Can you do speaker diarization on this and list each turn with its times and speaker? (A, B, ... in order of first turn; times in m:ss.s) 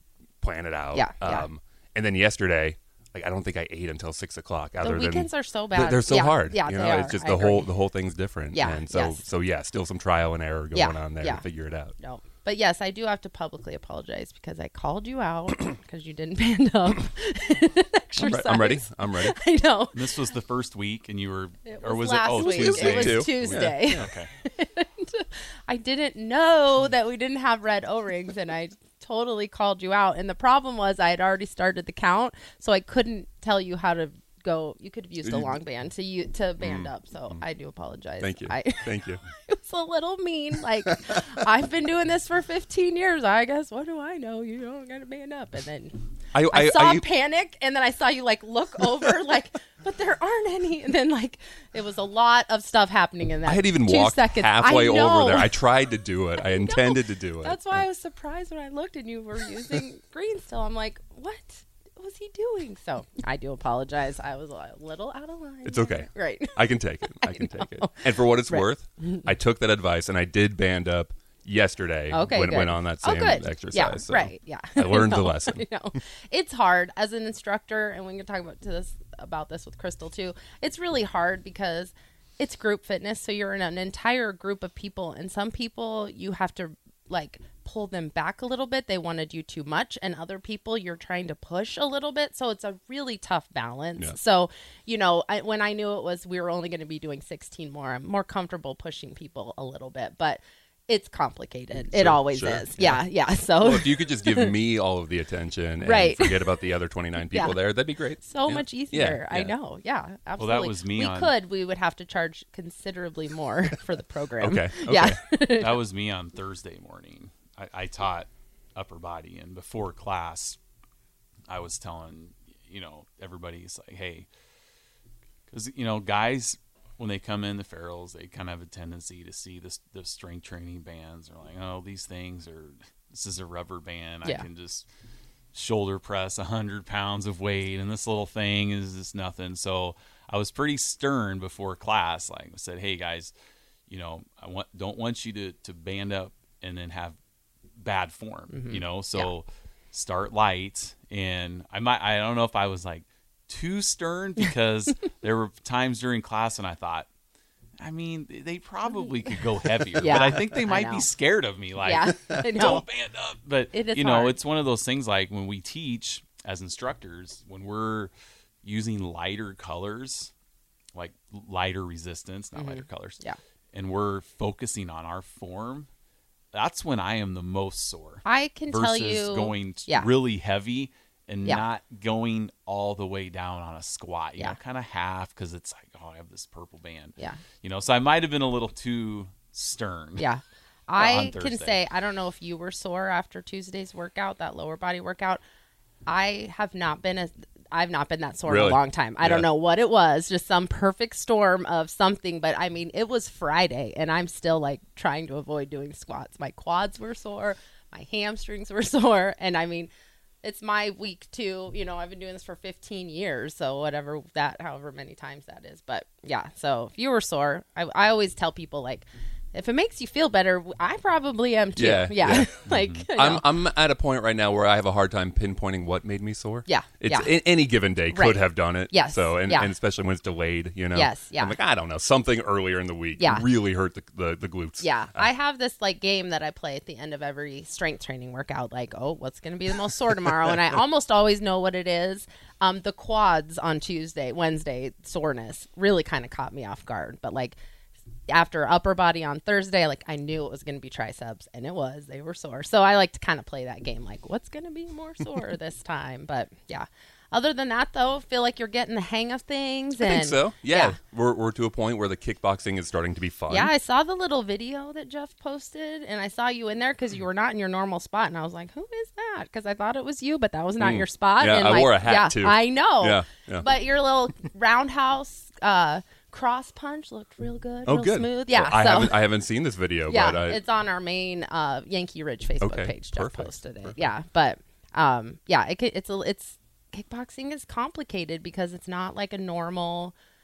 0:00.4-0:11.9 A
0:00.9-0:01.5 B
0:04.8-0:07.7 B
0:08.5-0:09.2 B
0:10.7-0:11.4 B
0:12.0-0:20.0 B
0:18.2-0:19.4 A
0:19.9-0:24.3 C
0:21.6-0:38.9 B
0:22.4-0:24.1 A
0:35.2-0:35.5 A
0:36.6-0:37.4 A
0:38.2-0:39.2 A
0:39.5-0:55.5 B
0:46.3-0:47.0 A
0:53.4-0:57.8 A
0:56.4-1:09.3 B
1:05.6-1:15.6 A
1:12.1-1:44.5 B
1:41.9-1:43.0 A
1:43.6-1:49.5 A
1:45.8-1:46.5 B
1:47.3-1:47.6 B
1:48.2-1:55.8 B
1:50.4-1:51.3 C
1:54.4-1:55.2 A
1:55.6-2:00.6 C
2:01.5-2:04.3 C
2:05.5-2:14.9 C
2:15.5-2:23.3 C
2:23.9-2:27.2 C
2:27.8-2:37.1 C
2:28.5-2:29.3 B
2:37.8-2:48.1 C
2:40.0-2:41.0 B
2:41.8-2:42.8 B
2:43.7-2:44.4 B
2:48.6-2:50.3 C
2:50.9-2:53.2 C
2:52.5-2:53.4 B
2:53.7-2:55.9 C
2:56.5-3:10.3 C
2:58.2-3:00.1 B
3:10.2-3:15.4 B
3:11.0-3:11.8 C
3:16.0-3:29.9 B
3:18.5-3:19.5 A
3:30.4-3:43.4 B
3:41.8-3:55.3 A
3:42.7-3:43.0 C
3:46.7-3:47.3 B
3:48.1-3:49.7 B
3:50.9-3:51.6 B
3:53.2-3:53.4 B
3:54.8-4:07.6 B
4:08.3-4:21.0 B
4:20.0-4:23.7 A
4:23.5-4:39.2 B
4:30.8-4:33.7 A
4:37.8-4:40.6 A
4:40.1-4:50.1 B
4:42.6-4:44.0 A